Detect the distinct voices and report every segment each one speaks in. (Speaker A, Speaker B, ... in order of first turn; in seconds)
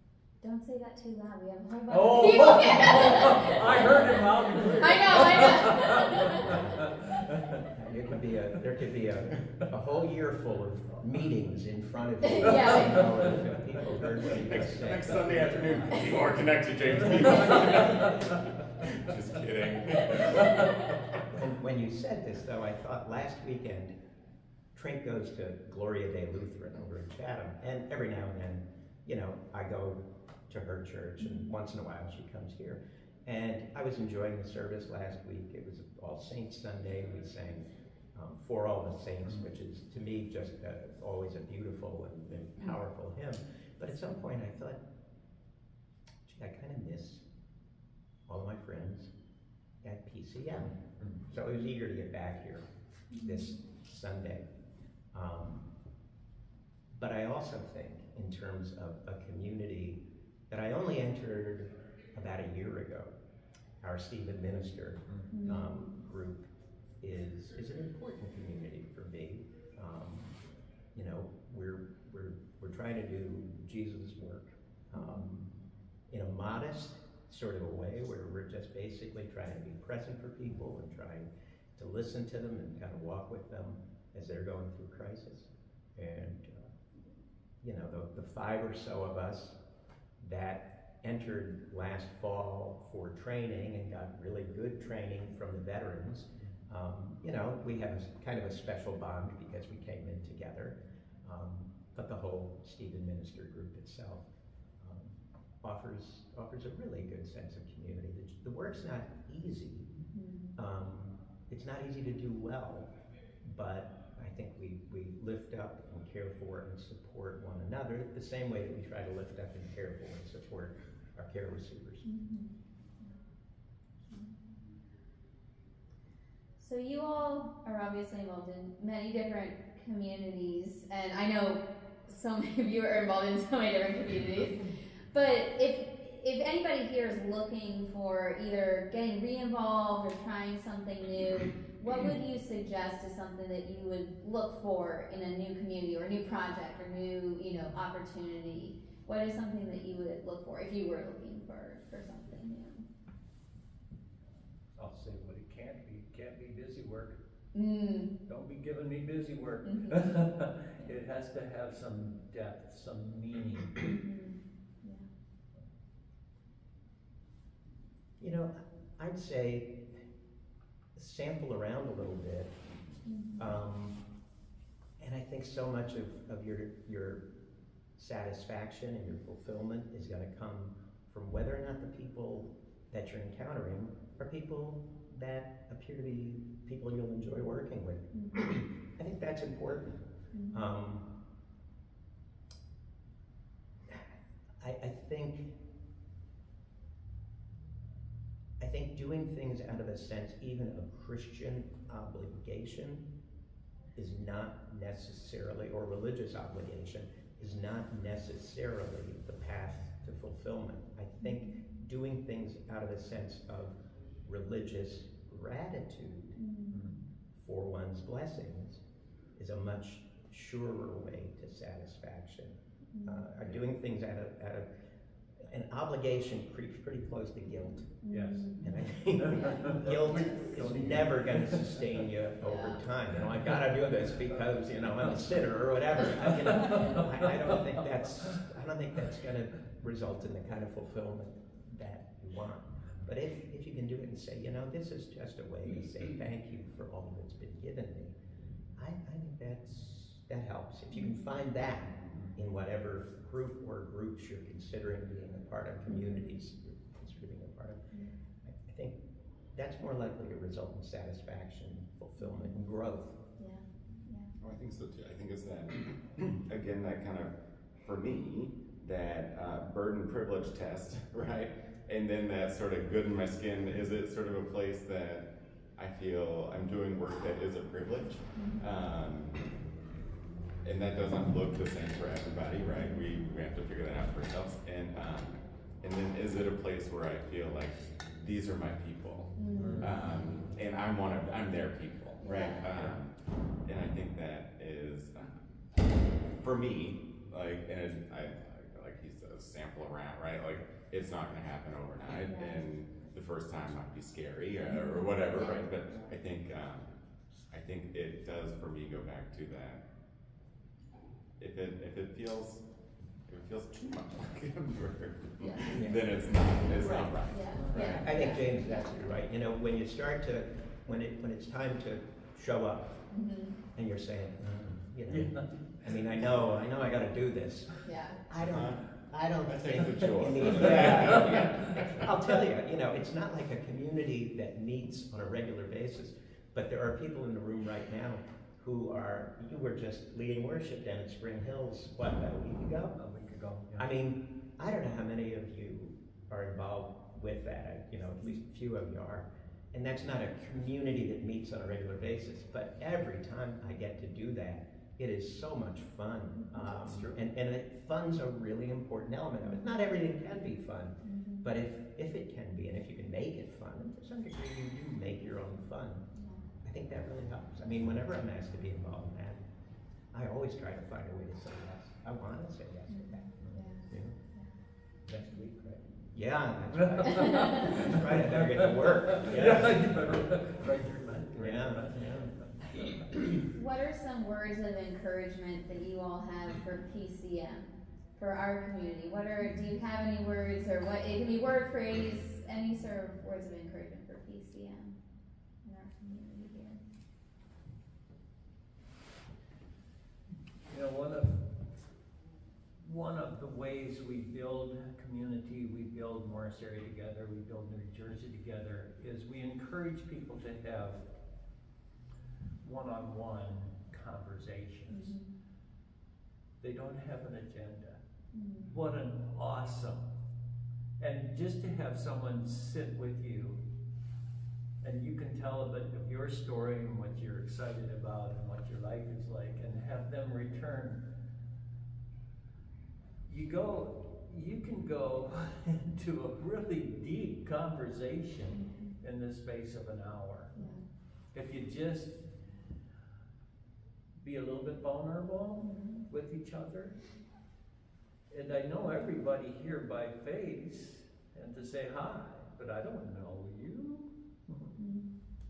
Speaker A: 0.4-4.2, 4.8-6.4, 12.2-13.1, 31.2-31.5, 53.1-53.5, 65.3-65.9, 75.0-75.3, 110.1-110.6, 122.0-123.1, 126.6-152.8, 157.5-158.1, 159.6-160.1, 163.8-165.1, 173.1-173.5, 188.1-188.5, 190.3-190.6, 211.2-211.5, 216.4-216.8, 222.9-223.2, 228.0-228.7, 232.5-232.8, 250.9-251.3, 255.9-256.4, 262.2-262.6, 263.4-264.3, 278.4-278.6, 289.4-289.9, 292.2-292.6, 302.2-302.7, 304.7-305.6, 315.4-315.8, 317.3-319.0, 323.1-323.6, 327.8-328.2, 361.0-361.5, 366.1-366.5, 372.9-374.5, 377.1-377.6, 383.5-395.0, 395.6-396.8, 414.9-415.3, 418.3-418.7, 438.6-438.9, 440.6-440.9, 445.6-446.1, 454.8-455.1
Speaker B: 1.9-7.6, 17.3-18.1, 154.8-157.2, 158.3-163.8, 216.7-217.0, 228.1-228.5, 229.2-231.6, 236.6-237.1, 289.6-289.9, 325.1-325.5, 330.6-331.0, 343.0-343.9, 356.8-357.2, 375.1-375.8, 377.1-378.4, 379.1-383.0, 400.7-401.6, 402.8-411.0, 412.6-415.2, 416.6-418.0, 418.7-420.1, 421.0-423.6, 424.8-431.0, 433.3-440.5, 441.3-442.3, 444.2-447.0, 448.3-454.7
Speaker C: 6.3-6.9, 7.7-16.4, 21.3-23.9, 24.7-44.8, 46.3-47.2, 48.3-49.1, 49.8-54.5, 55.1-55.7, 56.9-63.1, 63.8-70.4, 70.9-75.5, 76.1-86.8, 87.6-89.6, 90.2-104.3, 104.8-109.9, 110.6-112.9, 113.4-122.0, 168.2-169.9, 170.9-172.6, 173.4-174.0, 175.0-177.2, 178.0-190.0, 190.5-191.1, 194.6-195.6, 198.6-203.1, 204.0-216.4, 217.4-218.8, 219.4-224.7, 225.4-228.0, 228.6-248.2, 248.8-257.9, 258.4-259.0, 259.5-263.2, 315.7-316.1, 316.7-323.0, 323.7-343.0, 343.8-366.1, 366.6-369.4, 370.1-374.2, 376.1-380.0, 381.4-382.3
Speaker D: 14.4-20.9, 264.4-279.6, 280.6-295.4, 296.4-307.0, 307.5-309.8, 311.4-312.6, 313.3-318.1, 328.5-328.9, 329.4-332.1